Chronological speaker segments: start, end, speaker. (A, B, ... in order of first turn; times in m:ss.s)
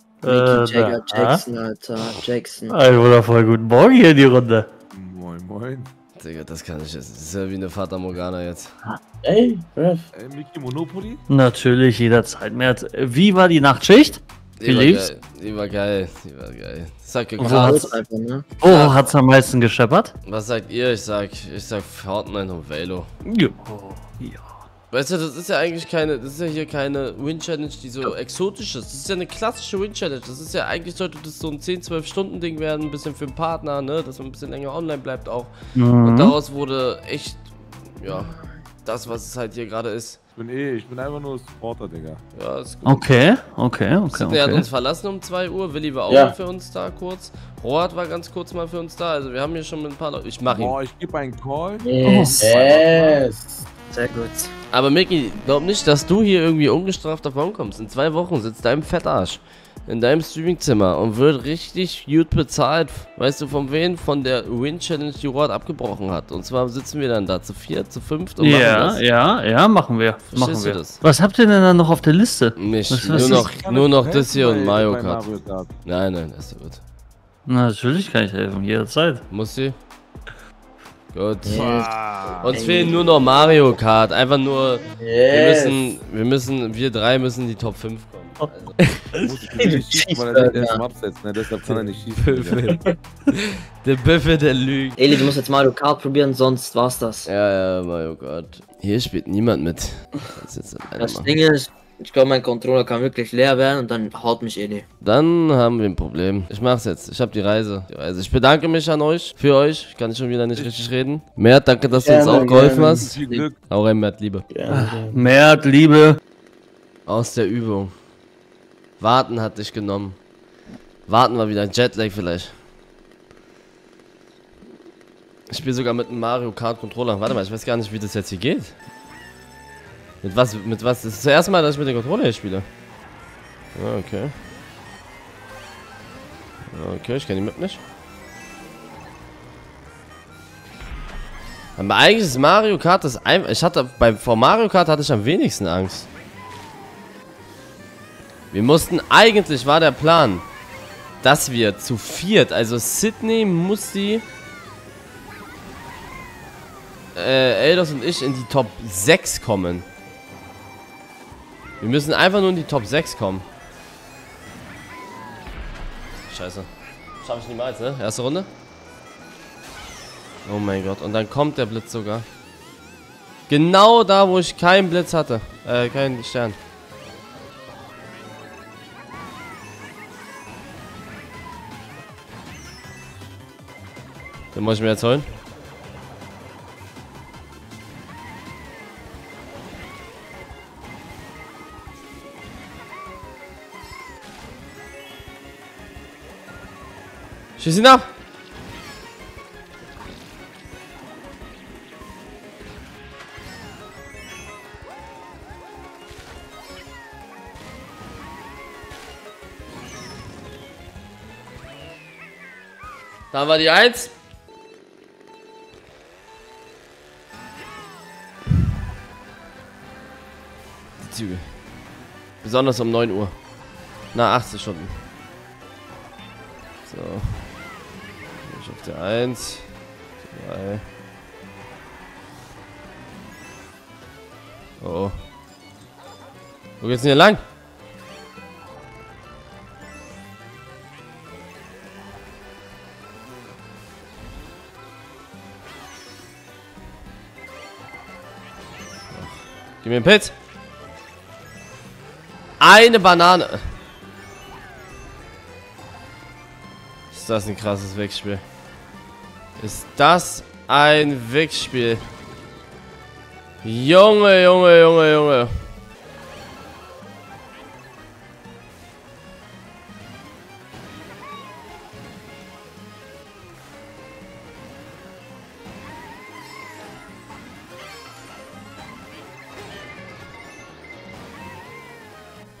0:00.2-0:01.4 A
0:00.2-0:02.8 B
0:02.7-0:04.7 A
0:04.9-0:05.9 C
0:06.2-0:08.7 D
0:09.2-0:10.1 E
0:10.1-0:11.2 C
0:11.3-0:15.0 A
0:14.6-0:17.9 D
0:17.4-0:17.9 A
0:17.4-0:18.5 B
0:18.6-0:20.1 A
0:18.6-0:19.1 D
0:20.2-0:23.1 D
0:23.2-0:24.6 A
0:24.9-0:38.3 D
0:35.8-0:36.3 A
0:38.8-0:40.2 D
0:40.3-0:42.2 C
0:42.3-0:43.1 D
0:42.8-0:44.7 A
0:44.1-0:50.8 D
0:46.1-0:46.4 E
0:50.5-0:51.9 C
0:51.8-0:52.5 B
0:52.0-0:52.5 A
0:52.4-0:53.6 E
0:52.6-0:53.2 C
0:53.9-0:54.5 B
0:54.7-1:09.0 D
1:08.4-1:13.5 A
1:10.2-1:11.0 D
1:12.6-1:15.2 D
1:13.0-1:15.7 C
1:15.8-1:16.8 D
1:17.4-1:19.2 A
1:19.3-1:19.7 D
1:21.1-1:21.7 D
1:21.4-1:23.6 B
1:21.5-1:22.6 C
1:22.4-1:29.0 D
1:25.0-1:26.0 E
1:29.2-1:32.7 C
1:29.6-1:30.8 B
1:32.2-1:35.0 D
1:35.0-1:37.3 B
1:37.2-1:41.3 D
1:41.0-1:44.8 B
1:45.0-1:54.5 D
1:50.5-1:50.9 C
1:51.9-1:53.4 E
1:52.1-1:53.7 C
1:54.5-1:55.2 E
1:54.7-1:56.2 A
1:57.0-1:57.9 D
1:59.0-2:00.2 D
2:01.0-2:02.5 D
2:05.5-2:08.8 D
2:10.2-2:12.6 D
2:13.7-2:14.3 D
2:16.7-2:17.8 D
2:21.8-2:26.1 D
2:28.5-2:30.4 D
2:31.2-2:34.2 D
2:37.1-2:39.8 D
2:41.8-2:43.4 D
2:46.3-2:46.7 D
2:47.2-2:48.5 D
2:50.4-2:52.2 D
2:53.5-2:56.6 D
3:04.5-3:05.2 D
3:17.6-3:18.0 D
3:33.3-3:34.1 D
3:41.1-3:41.6 D
3:42.4-3:43.4 D
3:44.1-3:45.0 D
3:46.8-3:47.6 D
3:48.4-3:50.8 D
3:54.8-3:55.2 D
3:56.8-3:57.4 D
4:09.1-4:10.3 D
4:12.6-4:13.6 D
4:17.1-4:18.4 D
4:19.6-4:22.0 D
4:23.6-4:25.5 D